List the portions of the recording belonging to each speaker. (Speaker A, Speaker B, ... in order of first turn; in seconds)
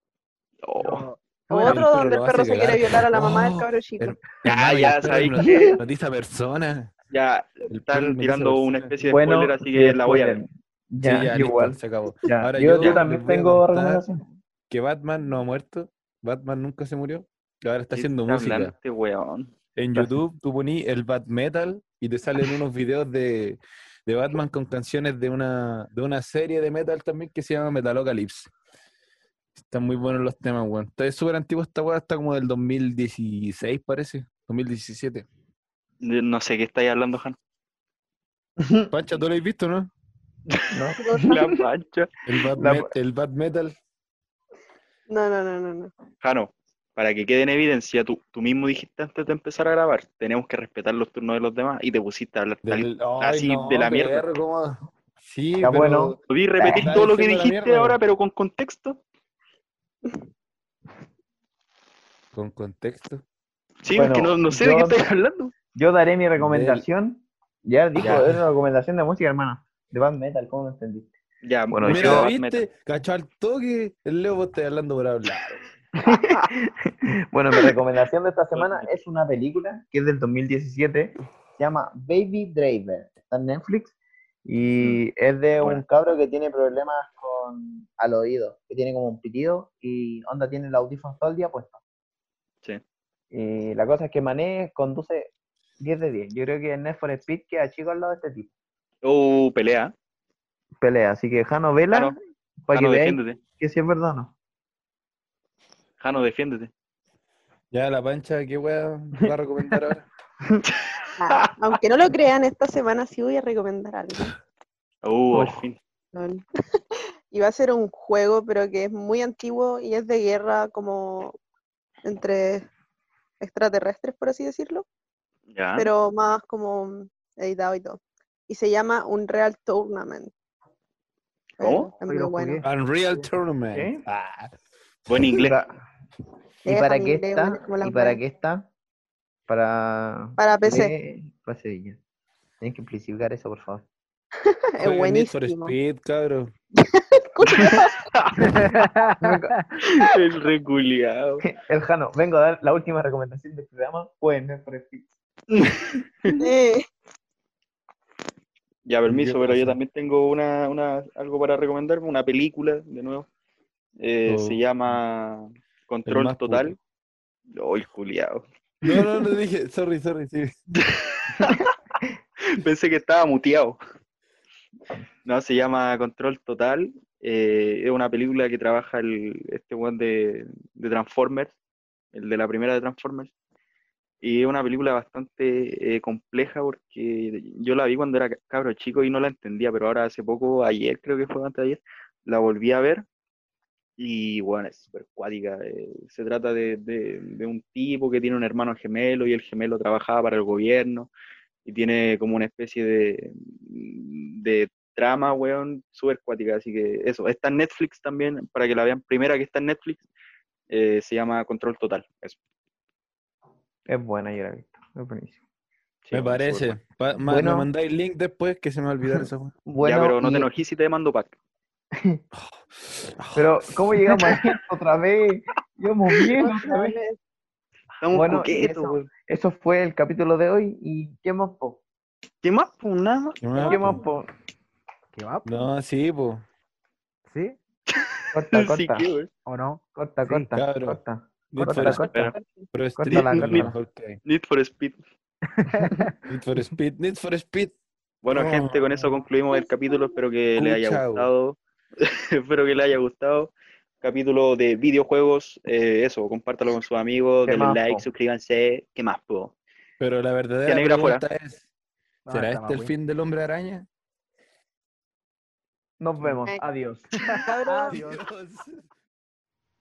Speaker A: 0.6-1.1, 4.5-5.8, 7.1-10.4, 17.9-19.5, 36.0-37.4, 40.5-42.1, 46.2-54.2, 56.3-59.0, 63.8-65.5, 68.0-68.3, 71.4-72.7, 78.5-78.9, 99.0-99.9, 102.7-103.4, 106.0-106.7, 115.0-115.8, 125.5-125.9, 131.6-131.9, 135.1-135.6, 147.6-148.5, 150.0-151.4, 158.8-163.3, 164.0-166.8, 167.5-168.9, 170.8-171.7, 172.4-173.8, 175.2-181.6, 182.1-183.3, 184.2-193.1, 194.0-201.1, 201.7-210.1, 210.7-212.4, 216.1-216.8, 219.8-221.3, 228.0-229.1, 232.4-233.8, 237.9-239.3, 243.1-243.7, 244.2-245.0, 248.2-259.5, 260.7-261.2
Speaker B: 0.8-1.9, 132.0-132.7, 148.4-149.4, 235.1-235.7, 237.3-237.6, 239.5-240.6, 245.5-246.2, 262.3-262.9, 267.2-268.2
Speaker C: 1.5-4.2, 41.0-41.4, 45.1-45.9, 111.2-114.3, 116.1-116.4, 117.3-121.4, 122.0-122.7, 123.4-124.9, 125.8-130.3, 131.6-132.6, 136.7-138.2, 140.4-140.9, 144.4-145.8, 146.8-148.0, 156.4-156.8, 226.4-227.2
Speaker D: 1.6-6.9, 7.7-8.9, 11.0-14.0, 14.7-18.7, 19.8-28.5, 29.6-35.3, 38.9-39.9, 42.3-43.8, 52.6-56.2, 56.8-58.0, 62.3-63.2, 66.4-66.9, 71.8-75.7, 107.7-110.1, 132.6-134.5, 144.8-146.5, 159.1-159.8, 164.3-165.0, 166.1-166.8, 168.8-170.6, 216.1-219.5, 222.3-223.8, 233.4-234.0, 235.4-236.4, 240.6-241.0, 241.5-244.2, 246.3-247.7, 248.3-249.0, 250.6-251.3, 260.0-261.7, 262.3-263.9, 267.5-268.8
Speaker E: 5.5-5.8, 9.0-14.3, 38.6-38.9, 40.7-41.5, 42.6-42.9, 55.6-56.9, 63.9-65.0, 65.7-71.2, 71.7-72.3, 76.0-83.9, 84.5-91.8, 93.3-98.5, 100.8-104.3, 109.2-109.8, 115.3-115.7, 133.7-134.0, 135.4-135.8, 136.7-138.7, 139.5-142.0, 142.6-143.9, 149.2-150.1, 151.4-155.2, 171.4-172.1, 213.9-215.4, 217.2-217.7, 219.1-220.5, 221.9-222.2, 223.4-227.0, 228.1-231.8, 233.6-234.3, 238.3-239.1, 239.9-242.2, 243.0-243.8, 257.4-258.1, 266.0-267.1